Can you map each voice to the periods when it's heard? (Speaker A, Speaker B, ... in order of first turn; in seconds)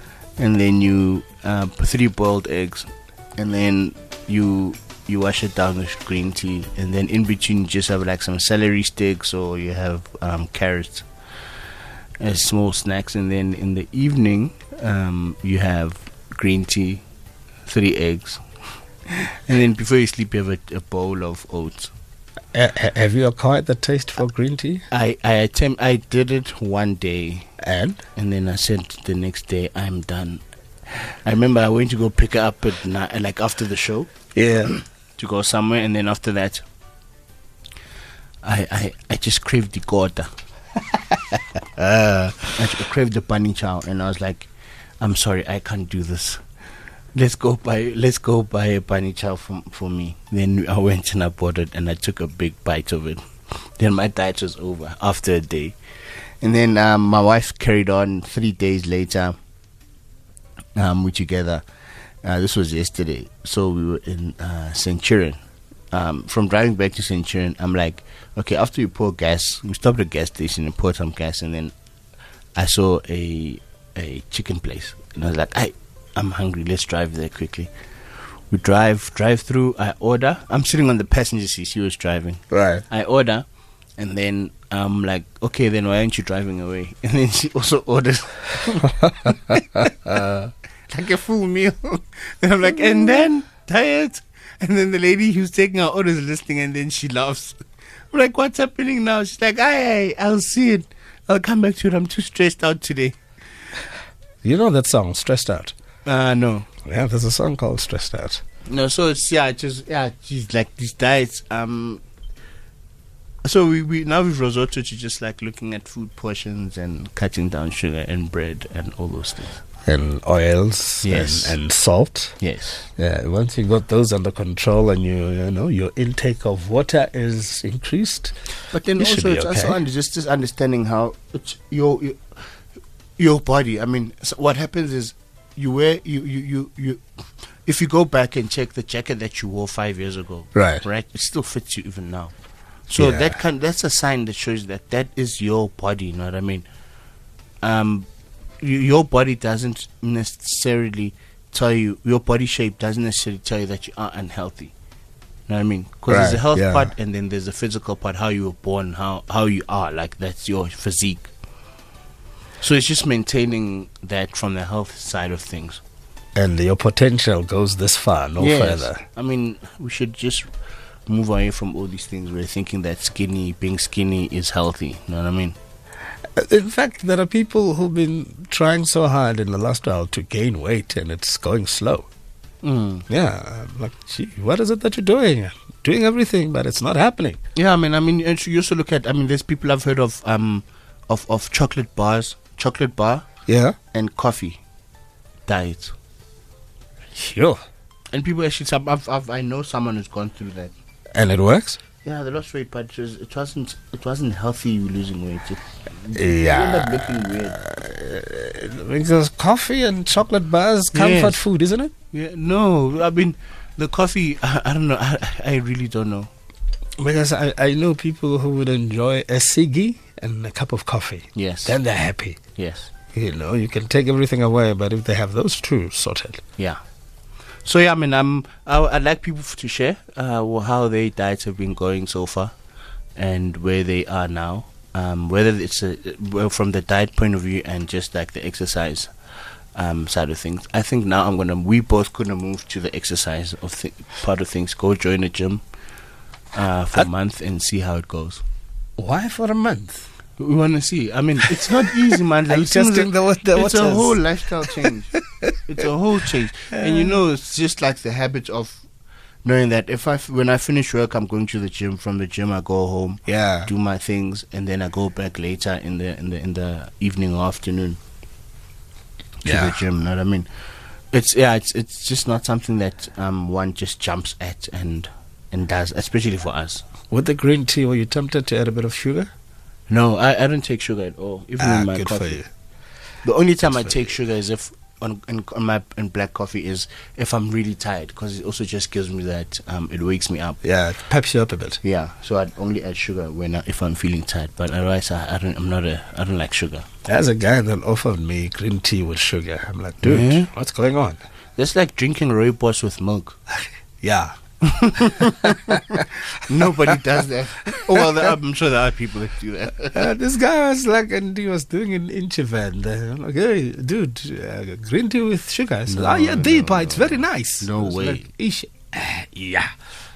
Speaker A: 0.4-11.1, 12.2-17.0, 17.7-18.4, 19.1-21.9, 24.9-27.5, 28.1-34.1, 35.2-36.6, 38.4-40.3, 42.6-44.5, 45.0-46.4, 47.1-53.2, 53.8-55.8, 56.4-59.4, 60.8-61.6, 62.2-65.4, 65.9-71.7, 72.6-77.7, 78.5-83.5, 84.0-97.6, 98.1-103.2, 106.0-106.7, 108.7-112.0, 113.5-119.6, 121.0-121.6, 122.4-122.9, 128.7-132.2, 133.2-137.0, 137.7-142.3, 142.9-146.7, 147.6-148.1, 148.6-154.7, 155.5-161.3, 162.6-165.8, 168.4-170.5, 171.1-175.6, 182.6-183.1, 187.6-193.2, 193.9-194.6, 195.5-195.9, 198.1-200.7, 202.0-207.6, 210.9-211.4, 212.1-216.3, 221.4-221.8, 222.6-222.9, 227.6-232.5, 233.2-239.1, 239.8-245.6, 246.6-248.4, 250.4-258.8, 259.4-268.0, 269.4-270.5, 271.1-276.9, 279.9-282.4, 283.2-290.6, 291.8-296.9, 300.0-300.5, 301.6-303.4, 304.6-310.1, 315.9-318.2
Speaker B: 22.5-24.8, 27.6-28.0, 34.4-34.8, 41.8-42.6, 82.5-82.8, 104.4-105.7, 106.8-108.4, 119.9-122.4, 123.0-128.3, 129.0-129.8, 140.6-140.8, 143.0-143.4, 156.1-156.9, 166.4-169.0, 176.4-182.1, 183.1-187.4, 193.5-193.8, 197.2-197.6, 201.2-201.8, 206.1-211.9, 217.0-222.4, 223.1-226.4, 249.0-250.1, 251.5-255.5, 256.7-257.1, 263.3-263.7, 269.4-269.8, 277.1-279.3, 281.6-282.5, 283.6-284.0, 290.6-291.8, 297.1-301.2, 304.0-304.4, 305.0-306.1, 309.9-319.7